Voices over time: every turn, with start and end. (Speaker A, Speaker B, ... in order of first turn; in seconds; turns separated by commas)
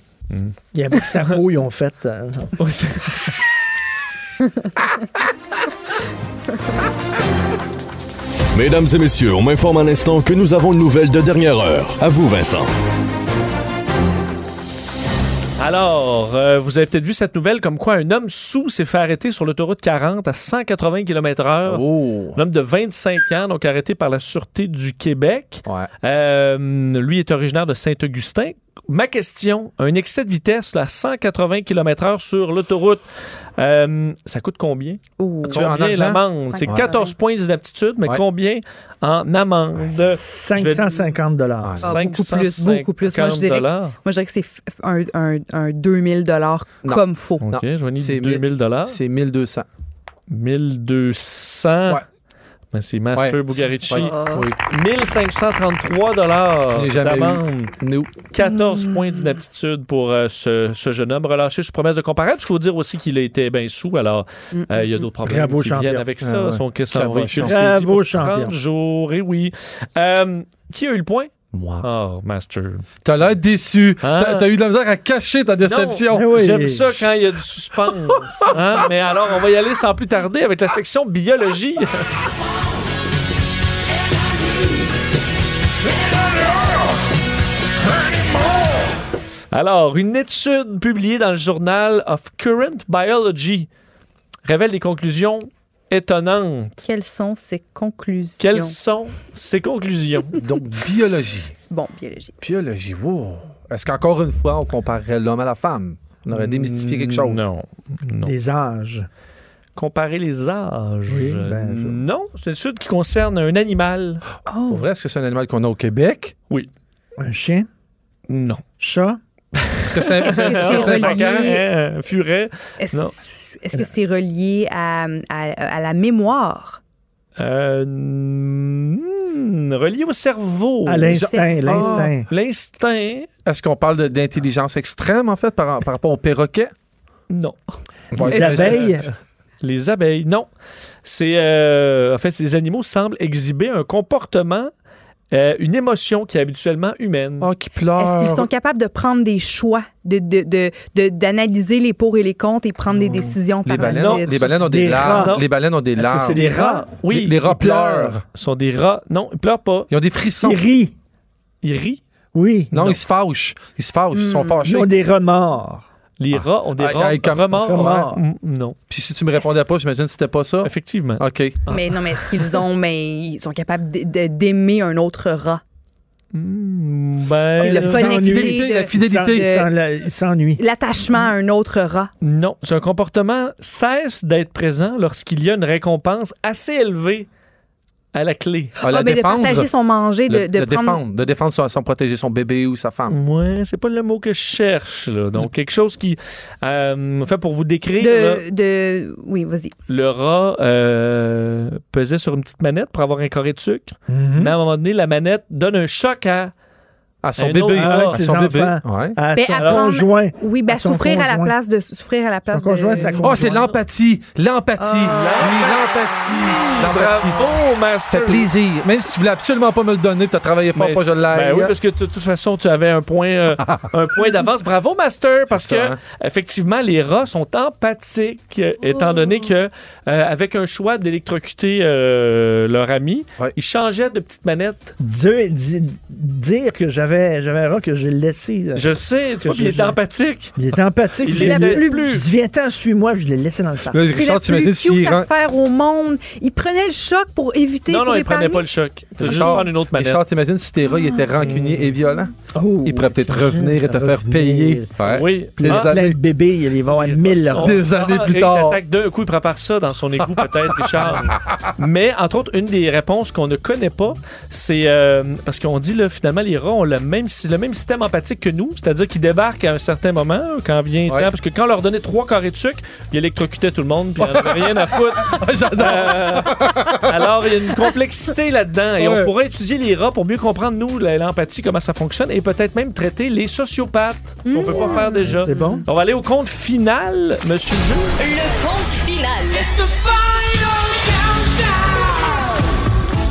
Speaker A: 0.3-1.4, Speaker B: 0.7-2.5, Speaker A: 2.6-3.4, Speaker C: 8.5-12.7, Speaker A: 15.6-33.0, Speaker D: 21.6-22.4, Speaker A: 33.6-41.0, Speaker E: 35.2-35.7, Speaker D: 35.5-36.9, Speaker E: 36.5-37.1, Speaker B: 39.9-41.8, Speaker D: 41.6-41.9, Speaker A: 41.8-44.0, Speaker E: 41.8-47.5, Speaker D: 46.9-49.7, Speaker A: 47.4-49.0, Speaker A: 50.3-52.0, Speaker A: 52.7-57.7, Speaker D: 53.1-54.6, Speaker E: 54.0-54.4, Speaker D: 56.7-58.2, Speaker A: 58.3-72.8, Speaker E: 58.4-59.0, Speaker E: 64.5-64.8, Speaker B: 65.2-66.1, Speaker D: 66.2-67.6, Speaker B: 67.3-68.5, Speaker D: 71.5-71.9, Speaker D: 73.0-77.0, Speaker A: 74.0-74.5, Speaker A: 75.6-82.1, Speaker B: 76.1-77.0, Speaker A: 89.5-93.7, Speaker A: 94.5-96.8, Speaker E: 96.8-98.8, Speaker A: 98.4-100.4, Speaker D: 100.4-101.5, Speaker E: 101.7-102.4, Speaker D: 102.4-107.4, Speaker A: 106.3-108.3, Speaker B: 108.2-109.1, Speaker A: 109.8-114.2, Speaker B: 111.1-112.0, Speaker E: 114.5-114.9, Speaker D: 114.7-116.3, Speaker B: 117.2-117.7, Speaker A: 118.3-118.6, Speaker B: 118.8-119.2, Speaker A: 119.6-123.2, Speaker D: 119.8-121.3, Speaker E: 120.2-121.7, Speaker E: 122.8-126.8, Speaker A: 127.4-133.3, Speaker B: 130.9-132.3, Speaker D: 131.2-132.1, Speaker E: 131.3-132.0, Speaker D: 133.5-136.7, Speaker A: 137.3-137.6, Speaker D: 138.1-139.0, Speaker B: 138.2-139.1, Speaker A: 138.2-140.5, Speaker A: 141.0-144.7, Speaker A: 145.3-147.5, Speaker D: 147.4-148.5, Speaker E: 148.0-154.7, Speaker D: 152.9-158.2, Speaker A: 153.8-155.5, Speaker B: 154.5-155.4, Speaker B: 155.9-158.2, Speaker A: 156.3-157.5, Speaker A: 158.3-159.9, Speaker D: 159.9-160.6, Speaker B: 160.4-160.9, Speaker A: 161.6-162.0, Speaker B: 162.3-162.9, Speaker D: 162.7-164.9, Speaker E: 164.1-164.6, Speaker B: 164.7-165.8, Speaker A: 166.2-168.8, Speaker D: 166.3-168.1, Speaker B: 167.6-168.2, Speaker D: 168.9-171.6, Speaker A: 170.6-172.4, Speaker E: 171.7-175.6, Speaker A: 176.3-178.3, Speaker E: 177.6-179.7, Speaker B: 177.6-180.6, Speaker D: 177.9-179.5, Speaker E: 180.6-182.1, Speaker A: 182.2-187.3, Speaker A: 188.1-188.8, Speaker D: 188.8-189.7, Speaker E: 188.8-191.0, Speaker D: 190.3-193.2, Speaker A: 193.1-198.4, Speaker E: 198.0-199.7, Speaker A: 199.9-206.5, Speaker B: 204.1-204.6, Speaker D: 207.2-209.2, Speaker A: 207.4-208.2, Speaker B: 207.7-211.6, Speaker E: 209.3-213.3, Speaker A: 209.6-210.1, Speaker B: 212.5-213.7, Speaker A: 213.0-213.7, Speaker D: 213.2-217.6, Speaker A: 214.9-218.5, Speaker E: 215.0-215.4, Speaker D: 218.1-221.7, Speaker A: 220.7-235.0, Speaker D: 225.5-226.0, Speaker B: 235.0-240.0, Speaker A: 238.8-240.6, Speaker B: 240.6-244.2, Speaker A: 241.2-242.3, Speaker E: 241.3-242.1, Speaker D: 243.9-245.3, Speaker E: 244.1-248.7, Speaker A: 247.9-250.2, Speaker D: 249.2-252.3, Speaker E: 249.3-249.6, Speaker E: 250.9-251.2, Speaker A: 251.4-251.9, Speaker B: 252.5-254.9, Speaker D: 252.8-256.2, Speaker A: 255.1-255.9, Speaker B: 255.5-257.8, Speaker A: 256.9-288.2, Speaker D: 257.5-258.8, Speaker D: 261.0-261.7, Speaker D: 274.2-277.3, Speaker D: 279.0-279.3, Speaker E: 284.5-285.8, Speaker B: 285.3-285.9, Speaker F: 288.2-291.9